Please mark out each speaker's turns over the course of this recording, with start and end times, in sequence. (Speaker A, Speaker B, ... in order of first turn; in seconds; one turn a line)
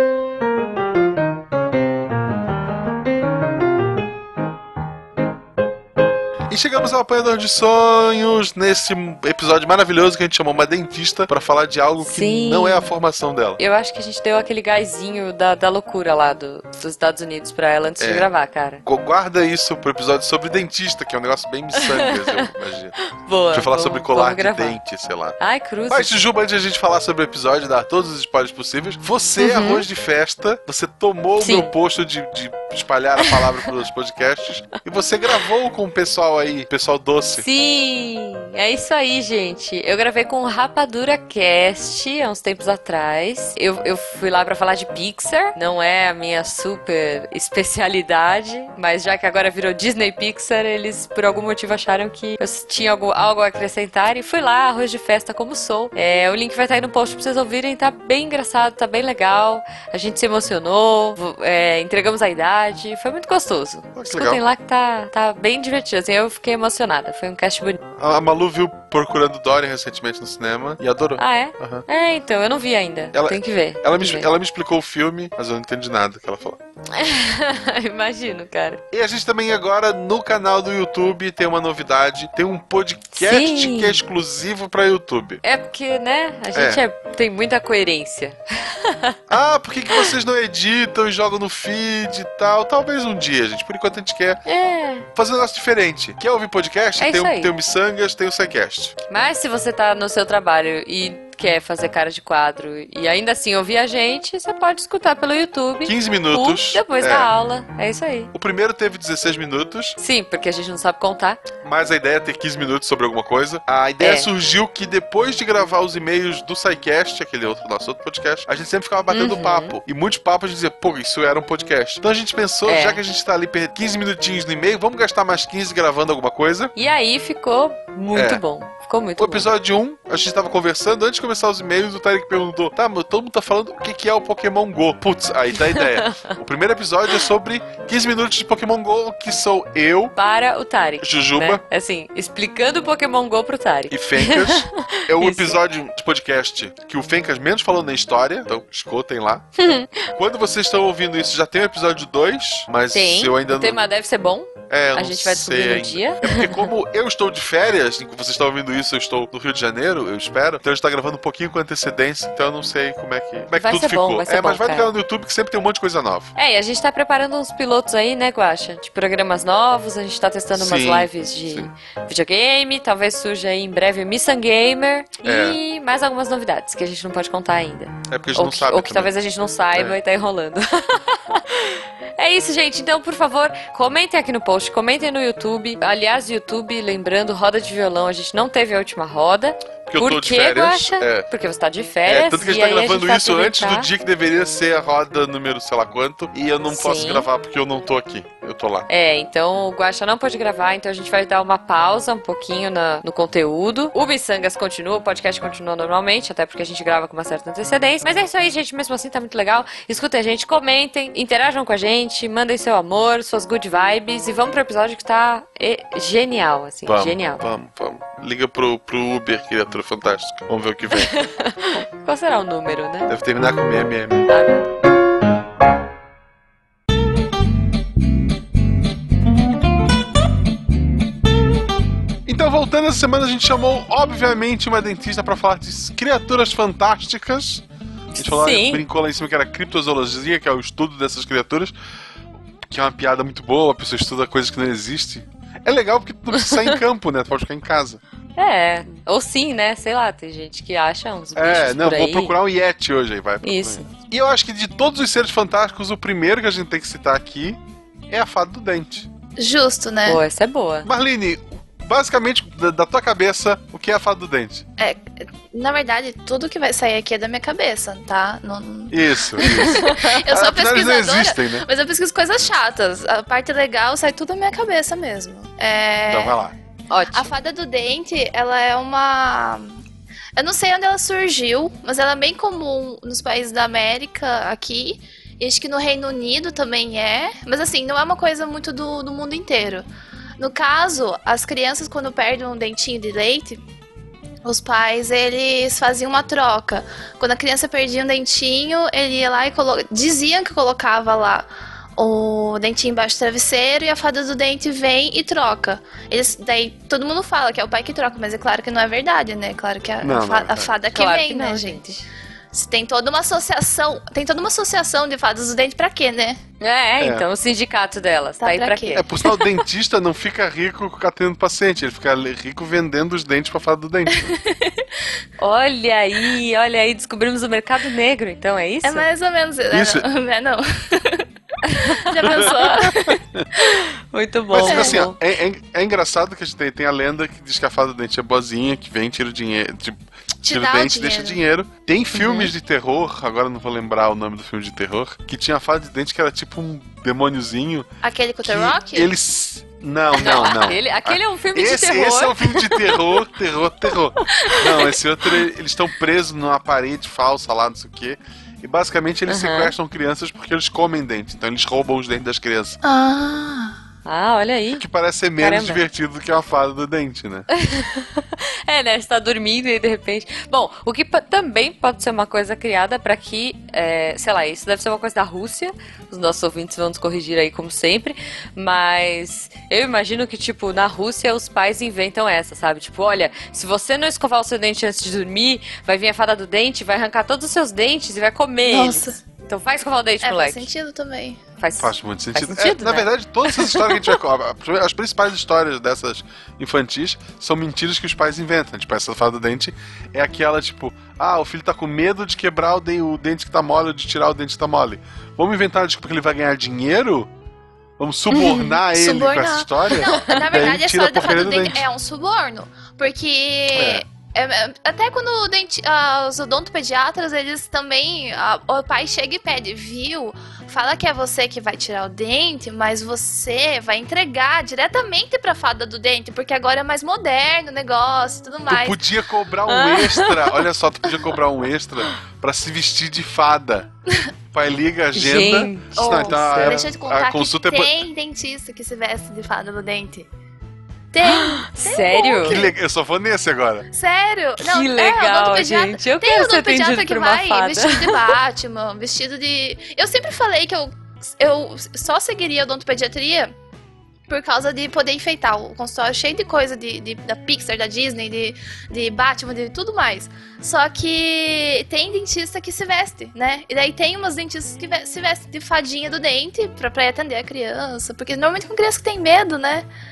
Speaker A: 6.5-13.6
Speaker B: 12.0-12.9
Speaker B: 13.6-18.8
Speaker A: 18.0-18.3
Speaker A: 18.8-23.0
Speaker B: 21.8-22.5
Speaker B: 23.1-24.8
Speaker A: 23.5-25.4
Speaker B: 25.4-26.1
Speaker A: 25.9-37.5
Speaker B: 29.4-29.8
Speaker B: 31.4-31.7
Speaker B: 33.2-33.5
Speaker B: 37.3-67.8
Speaker A: 63.9-64.4
Speaker A: 67.9-71.8
Speaker B: 71.2-74.3
Speaker A: 73.1-76.6
Speaker B: 76.9-78.8
Speaker A: 78.9-85.4
Speaker B: 83.1-84.0
Speaker B: 85.4-89.2
Speaker A: 86.5-86.8
Speaker A: 89.3-94.4
Speaker B: 94.5-95.0
Speaker A: 95.1-98.9
Speaker B: 97.0-97.5
Speaker B: 99.1-108.3
Speaker A: 105.8-107.3
Speaker A: 108.3-110.0
Speaker B: 110.0-111.4
Speaker A: 111.6-126.7
Speaker B: 114.0-114.3
Speaker B: 119.1-119.8
Speaker B: 122.7-123.0
Speaker B: 126.8-129.5
Speaker A: 128.1-128.4
Speaker A: 129.2-140.1
Speaker B: 135.7-136.3
Speaker B: 140.2-145.6
Speaker A: 141.0-141.6
Speaker A: 143.9-149.4
Speaker B: 149.6-149.9
Speaker A: 150.1-153.8
Speaker B: 152.9-156.7
Speaker A: 154.7-166.3
Speaker B: 163.5-164.9
Speaker B: 166.3-193.9
Speaker A: 170.5-171.7
Speaker A: 175.2-175.6
Speaker A: 178.1-179.1
Speaker A: 189.8-191.2
Speaker A: 192.1-198.9
Speaker B: 196.7-197.3
Speaker B: 198.9-217.4
Speaker A: 216.8-221.1
Speaker B: 220.9-223.1
Speaker A: 223.1-224.3
Speaker B: 224.3-224.7
Speaker A: 232.2-237.6
Speaker B: 238.1-238.8
Speaker A: 238.2-241.7
Speaker A: 242.7-248.0
Speaker B: 246.3-246.8
Speaker B: 248.4-252.3
Speaker A: 251.3-259.1
Speaker B: 253.4-253.9
Speaker C: 259.4-260.2
Speaker B: 260.1-260.9
Speaker A: 260.8-264.6
Speaker C: 264.8-276.4
Speaker A: 268.9-271.6
Speaker B: 269.4-270.1
Speaker A: 276.1-276.5
Speaker B: 276.9-277.3
Speaker C: 277.1-279.8
Speaker C: 280.4-289.9
Speaker C: 290.4-293.6
Speaker C: 294.4-316.4
Speaker A: 310.0-310.7
Speaker B: 310.9-312.0
Speaker B: 316.6-319.1
Speaker A: 317.0-317.2
Speaker C: 318.4-319.5
Speaker A: 318.9-324.3
Speaker C: 324.1-325.0
Speaker B: 325.4-329.1
Speaker C: 328.8-331.3
Speaker A: 329.7-330.1
Speaker B: 331.6-333.0
Speaker C: 331.8-333.8
Speaker A: 332.2-333.5
Speaker B: 333.6-335.1
Speaker A: 334.5-347.9
Speaker C: 334.7-335.0
Speaker C: 340.4-341.4
Speaker B: 342.1-342.5
Speaker C: 348.0-349.1
Speaker A: 348.4-362.8
Speaker B: 350.1-353.0
Speaker B: 354.2-354.6
Speaker B: 359.3-359.7
Speaker C: 362.8-363.8
Speaker B: 364.1-364.8
Speaker A: 364.8-367.5
Speaker B: 365.4-365.8
Speaker B: 367.5-390.7
Speaker C: 388.7-389.2
Speaker C: 390.2-391.4
Speaker B: 391.6-393.9
Speaker A: 391.8-407.3
Speaker A: 408.0-411.8
Speaker B: 408.3-408.8
Speaker C: 408.9-429.0
Speaker B: 409.9-410.4
Speaker A: 413.7-414.0
Speaker A: 428.7-433.9
Speaker B: 429.7-430.6
Speaker A: 434.5-438.0
Speaker B: 435.1-436.8
Speaker C: 435.9-440.3
Speaker C: 441.1-442.7
Speaker B: 441.2-442.6
Speaker A: 442.4-443.9
Speaker C: 443.9-453.5
Speaker B: 444.6-448.3
Speaker C: 454.3-469.9